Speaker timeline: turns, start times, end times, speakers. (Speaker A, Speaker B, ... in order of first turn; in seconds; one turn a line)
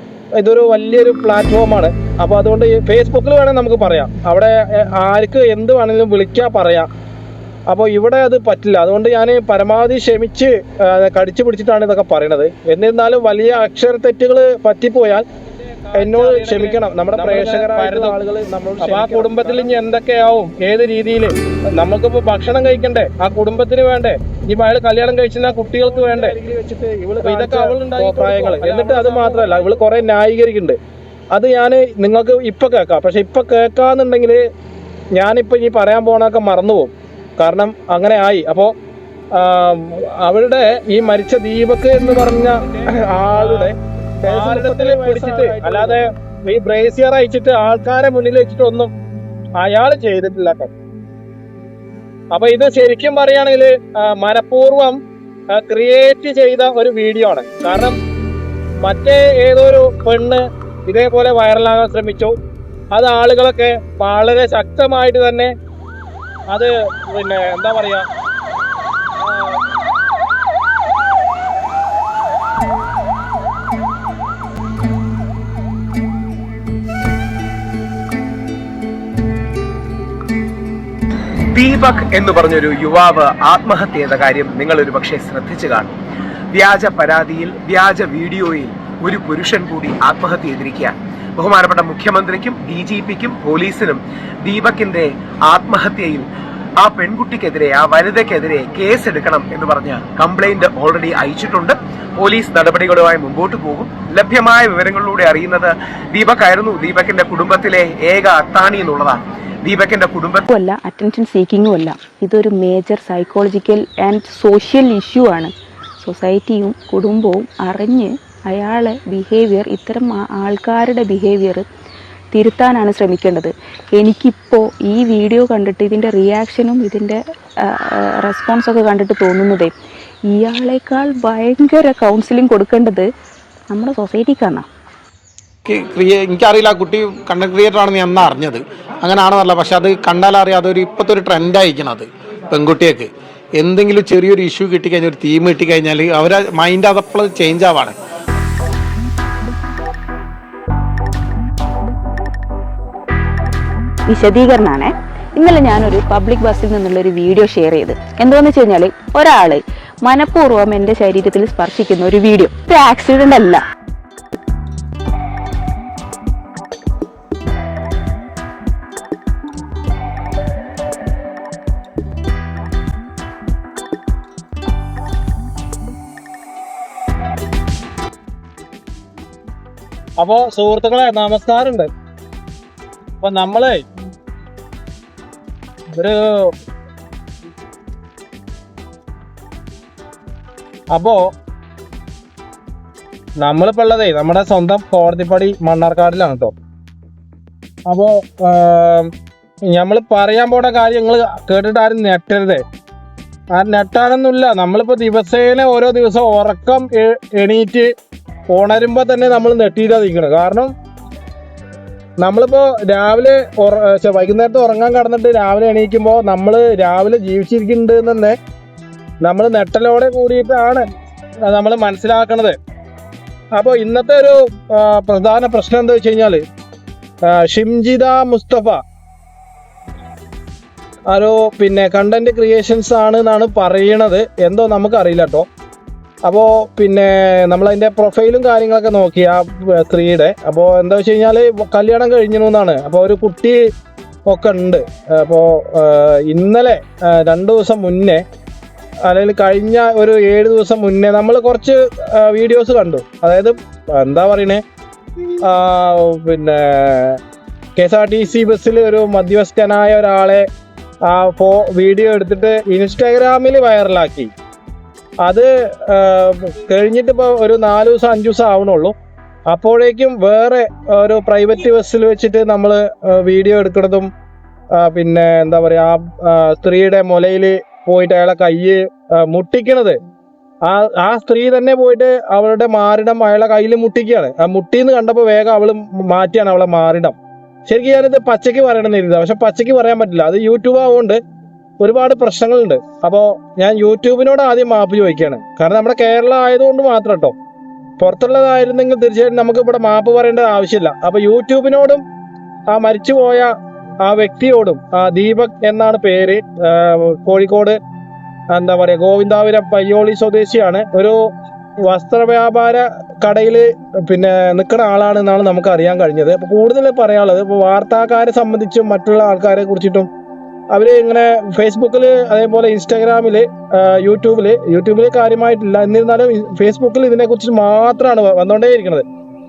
Speaker A: 0.4-6.9
Speaker A: 7.7-15.3
Speaker B: 15.8-19.8
Speaker A: 16.0-18.2
Speaker A: 18.8-26.4
Speaker B: 25.7-30.0
Speaker A: 27.2-30.8
Speaker A: 31.3-34.4
Speaker A: 35.1-38.7
Speaker A: 39.4-48.9
Speaker B: 42.8-43.7
Speaker B: 44.2-46.0
Speaker A: 49.6-50.7
Speaker A: 52.3-55.0
Speaker A: 55.5-58.0
Speaker A: 58.8-62.4
Speaker A: 62.9-65.5
Speaker A: 66.5-68.1
Speaker A: 69.2-69.6
Speaker C: 81.5-86.0
Speaker C: 86.5-110.5
Speaker D: 110.5-121.7
Speaker D: 122.3-129.7
Speaker D: 130.3-133.1
Speaker D: 133.7-134.7
Speaker B: 135.7-148.0
Speaker D: 154.1-163.6
Speaker A: 180.2-181.9
Speaker A: 183.2-183.8
Speaker A: 185.9-186.5
Speaker A: 190.9-191.2
Speaker A: 193.4-196.5
Speaker A: 197.9-199.1
Speaker A: 199.7-202.6
Speaker A: 203.5-207.9
Speaker A: 208.5-210.7
Speaker A: 212.2-218.4
Speaker A: 219.2-220.8
Speaker A: 221.4-222.6
Speaker A: 223.6-226.4
Speaker A: 227.3-228.8
Speaker A: 231.1-235.5
Speaker A: 236.2-243.6
Speaker A: 244.3-248.2
Speaker A: 249.1-254.6
Speaker A: 255.4-257.2
Speaker A: 257.8-260.5
Speaker A: 261.1-264.3
Speaker A: 265.2-268.9
Speaker A: 269.5-274.1
Speaker A: 274.8-280.0
Speaker A: 280.6-291.2
Speaker A: 291.8-297.3
Speaker A: 298.0-302.0
Speaker A: 302.7-303.5
Speaker A: 304.0-307.8
Speaker A: 308.5-311.3
Speaker A: 311.9-320.1
Speaker A: 320.7-329.0